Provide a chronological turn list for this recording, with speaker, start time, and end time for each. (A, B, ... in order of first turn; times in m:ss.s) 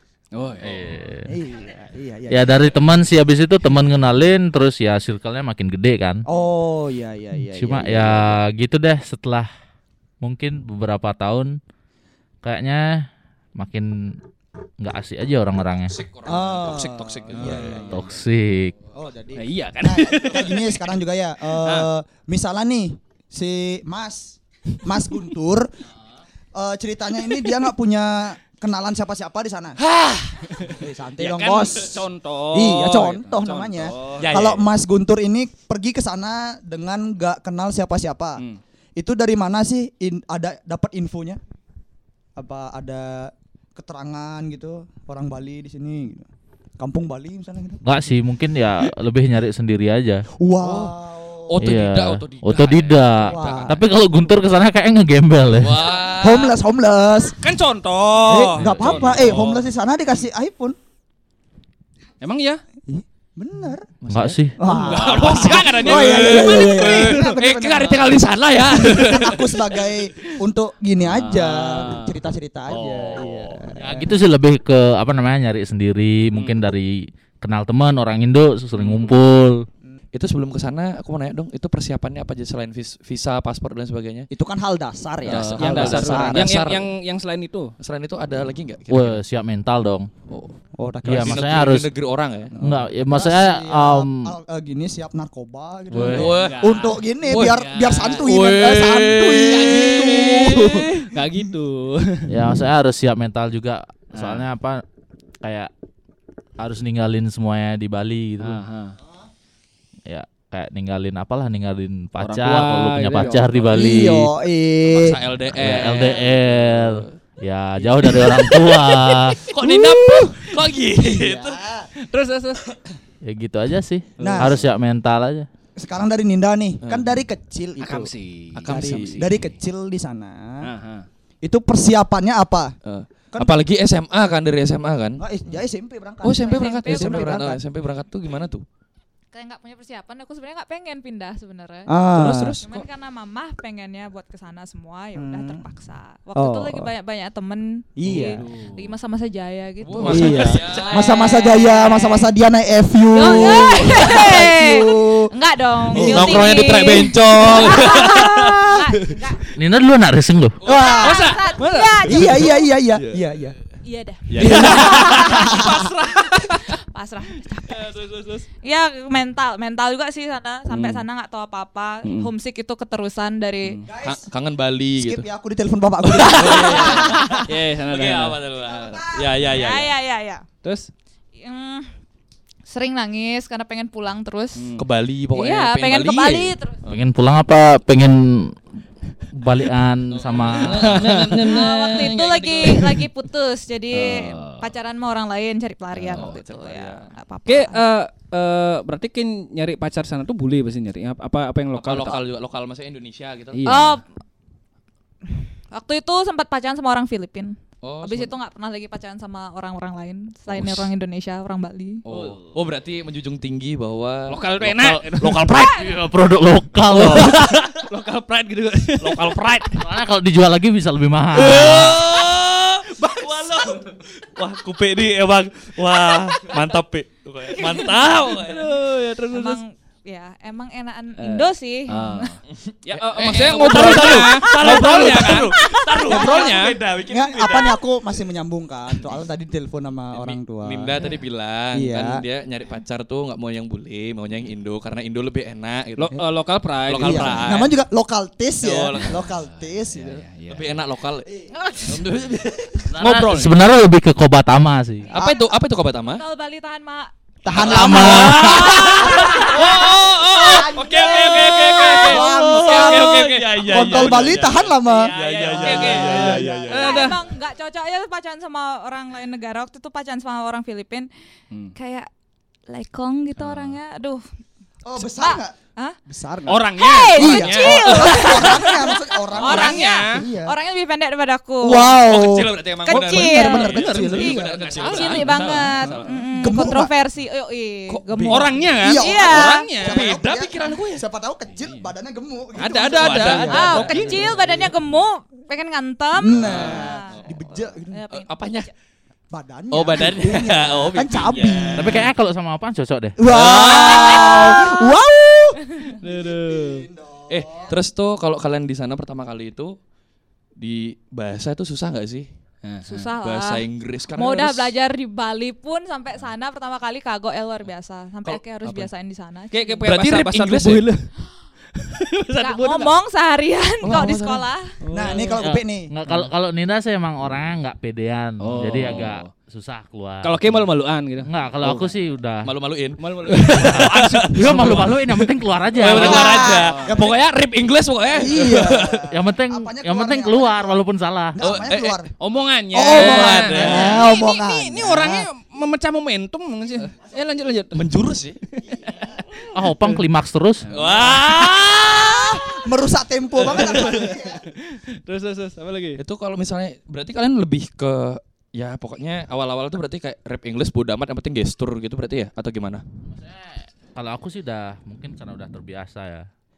0:00.3-0:00.8 A
0:00.6-0:01.3 B
0:01.3-0:02.8 C
0:02.3-0:06.2 B
0:06.3-0:08.4 C
0:07.6-0:09.5 B
0:10.2-0:11.6 B
0:12.4-0:14.2 B
0:14.8-0:16.0 B
0:15.9-0:18.1 D
0:16.2-0:18.1 C
0:17.4-0:17.8 A
0:17.9-0:18.7 B
0:18.9-0:25.7 C
0:19.4-0:20.8 A
0:21.6-0:21.9 A
0:26.6-0:29.8 C
0:29.8-0:30.4 D
0:30.6-0:34.4 A
0:30.8-0:38.4 C
0:34.2-0:34.7 D
0:39.0-0:41.4 C
0:42.4-0:46.3 C
0:46.8-0:47.8 C
0:47.8-0:50.2 B
0:50.4-0:51.6 C
0:50.6-0:51.0 D
0:51.5-0:53.8 D
0:51.6-0:55.9 B
0:53.2-0:53.8 C
0:55.6-0:56.5 D
0:56.1-0:57.4 C
0:57.4-0:59.6 A
0:58.2-1:00.8 C
0:58.6-0:59.2 D
1:02.2-1:02.6 A
1:02.9-1:03.9 C
1:04.0-1:09.5 D
1:04.1-1:04.6 B
1:04.6-1:08.2 C
1:04.6-1:07.4 A
1:08.8-1:14.1 C
1:08.9-1:09.2 A
1:11.0-1:12.2 A
1:12.7-1:13.7 A
1:13.8-1:19.7 B
1:16.4-1:16.6 A
1:18.8-1:19.1 A
1:20.1-1:24.3 D
1:24.3-1:26.6 C
1:25.3-1:26.9 D
1:25.3-1:27.7 A
1:27.8-1:29.2 D
1:28.9-1:30.1 B
1:30.3-1:30.6 D
1:30.8-1:31.6 C
1:31.0-1:31.9 B
1:31.1-1:32.5 D
1:32.6-1:41.4 C
1:32.6-1:34.3 B
1:35.9-1:36.2 B
1:36.0-1:38.1 A
1:36.0-1:40.6 D
1:39.4-1:42.5 A
1:42.3-1:44.8 B
1:44.1-1:44.5 A
1:45.4-1:45.7 B
1:46.6-1:48.6 B
1:48.4-1:49.0 A
1:50.1-1:54.3 B
1:52.2-1:54.1 A
1:53.7-1:55.2 C
1:54.9-1:57.1 D
1:55.5-1:59.4 B
1:57.8-1:59.4 A
1:59.5-2:01.6 D
1:59.6-2:00.4 C
2:01.1-2:01.9 C
2:02.0-2:02.6 A
2:03.2-2:05.5 B
2:04.2-2:04.7 A
2:04.2-2:04.6 C
2:05.8-2:08.1 C
2:06.8-2:07.1 D
2:07.8-2:09.4 A
2:08.5-2:09.3 D
2:08.6-2:10.7 C
2:10.6-2:11.1 A
2:11.4-2:12.7 C
2:12.8-2:15.2 D
2:13.3-2:13.6 C
2:15.2-2:17.6 C
2:16.2-2:18.6 D
2:16.4-2:17.3 E
2:19.3-2:21.9 E
2:21.9-2:22.6 C
2:22.2-2:22.8 D
2:22.6-2:32.3 E
2:25.2-2:25.6 C
2:26.4-2:26.9 C
2:28.0-2:28.4 C
2:28.0-2:28.9 A
2:29.8-2:31.2 D
2:30.0-2:35.3 C
2:30.1-2:30.5 A
2:33.1-2:39.4 E
2:35.9-2:37.1 C
2:35.9-2:38.7 D
2:37.6-2:38.6 C
2:39.6-2:40.6 B
2:40.6-2:41.2 D
2:40.6-2:41.4 C
2:40.7-2:42.7 E
2:41.0-2:42.5 A
2:42.0-2:43.6 C
2:43.0-2:43.2 D
2:43.8-2:45.6 E
2:44.3-2:45.6 D
2:44.4-2:45.9 C
2:44.4-2:46.7 A
2:46.3-2:48.0 E
2:47.7-2:48.4 A
2:48.6-2:53.8 E
2:50.7-2:51.0 A
2:52.0-2:52.3 A
2:53.9-2:54.3 C
2:54.0-2:55.3 D
2:55.0-2:57.5 C
2:56.1-2:59.9 D
2:56.4-2:58.4 A
2:58.7-2:59.4 C
2:59.4-3:00.4 E
3:00.6-3:00.9 A
3:01.4-3:01.9 E
3:02.7-3:04.6 E
3:04.6-3:04.9 A
3:04.8-3:07.0 D
3:05.3-3:06.8 E
3:06.9-3:08.6 B
3:09.3-3:11.0 B
3:10.1-3:12.9 D
3:10.6-3:11.6 A
3:11.4-3:17.8 E
3:13.9-3:14.7 A
3:16.0-3:16.4 A
3:16.1-3:17.0 D
3:17.5-3:22.2 A
3:21.8-3:23.7 D
3:23.5-3:24.0 A
3:23.7-3:24.0 E
3:25.7-3:32.0 E
3:27.8-3:28.3 D
3:32.0-3:34.4 D
3:32.1-3:32.6 A
3:34.3-3:35.9 A
3:34.6-3:37.4 B
3:35.5-3:36.0 E
3:36.9-3:39.8 A
3:37.0-3:37.8 D
3:39.0-3:39.7 D
3:39.8-3:42.1 B
3:41.4-3:48.7 D
3:43.0-3:43.9 A
3:47.6-3:47.9 E
3:47.8-3:49.6 A
3:49.3-3:52.4 E
3:51.2-3:56.8 A
3:52.7-3:57.8 D
3:53.5-3:55.0 C
3:55.5-3:55.8 E
3:56.0-3:56.6 C
3:57.1-4:01.0 C
4:00.1-4:06.2 D
4:01.7-4:02.2 C
4:06.0-4:07.7 A
4:06.8-4:07.7 D
4:07.0-4:10.2 C
4:08.6-4:09.3 D
4:09.0-4:10.8 A
4:10.5-4:13.5 D
4:11.7-4:12.0 A
4:12.9-4:15.1 B
4:13.0-4:13.5 A
4:15.1-4:15.5 C
4:15.1-4:16.2 D
4:16.2-4:17.1 E
4:17.4-4:27.0 C
4:17.5-4:27.0 D
4:17.6-4:18.6 B
4:18.4-4:27.2 A
4:18.8-4:19.6 E
4:21.4-4:22.1 E
4:25.6-4:31.1 E
4:31.8-4:32.1 E
4:32.7-4:34.2 E
4:33.4-4:33.7 A
4:34.8-4:35.6 C
4:35.0-4:36.0 E
4:36.1-4:40.6 C
4:36.5-4:40.3 A
4:36.8-4:42.0 E
4:39.4-4:39.7 D
4:41.6-4:44.8 C
4:41.9-4:46.1 D
4:42.9-4:49.7 E
4:43.2-4:46.1 A
4:46.4-4:46.9 C
4:47.9-4:48.7 D
4:48.3-4:50.1 A
4:48.8-4:54.5 C
4:49.8-4:51.0 D
4:51.6-4:51.9 A
4:52.6-4:54.7 A
4:52.9-4:54.3 D
4:53.5-4:57.2 E
4:56.2-4:58.0 C
4:56.4-4:57.3 D
4:56.5-4:56.8 A
4:57.9-4:58.7 E
4:58.1-4:58.7 D
4:59.3-5:02.1 C
4:59.7-5:02.0 D
5:01.8-5:03.2 B
5:03.2-5:07.7 C
5:03.3-5:04.6 D
5:04.4-5:04.7 E
5:06.0-5:06.9 A
5:07.3-5:09.8 D
5:10.6-5:12.3 D
5:12.6-5:13.1 A
5:12.8-5:13.6 E
5:13.2-5:14.7 D
5:14.2-5:19.9 E
5:19.5-5:21.1 A
5:19.8-5:20.9 D
5:21.8-5:22.9 A
5:22.3-5:24.7 E
5:23.8-5:24.4 D
5:24.8-5:25.4 A
5:24.9-5:25.9 C
5:25.4-5:30.7 B
5:28.4-5:29.3 A
5:30.2-5:31.9 A
5:31.2-5:32.5 B
5:32.4-5:34.9 D
5:33.0-5:37.2 A
5:33.5-5:36.5 B
5:35.7-5:39.1 D
5:35.9-5:37.2 C
5:38.1-5:40.8 C
5:39.1-5:41.4 B
5:41.4-5:42.1 C
5:41.4-5:42.0 D
5:42.2-5:47.8 A
5:42.7-5:45.3 C
5:42.9-5:44.1 D
5:47.7-5:48.4 D
5:48.6-5:50.0 A
5:49.5-5:50.7 B
5:50.7-5:52.6 A
5:50.7-5:52.4 D
5:51.5-5:54.5 C
5:53.4-5:56.0 A
5:56.0-6:02.8 D
6:03.2-6:06.3 B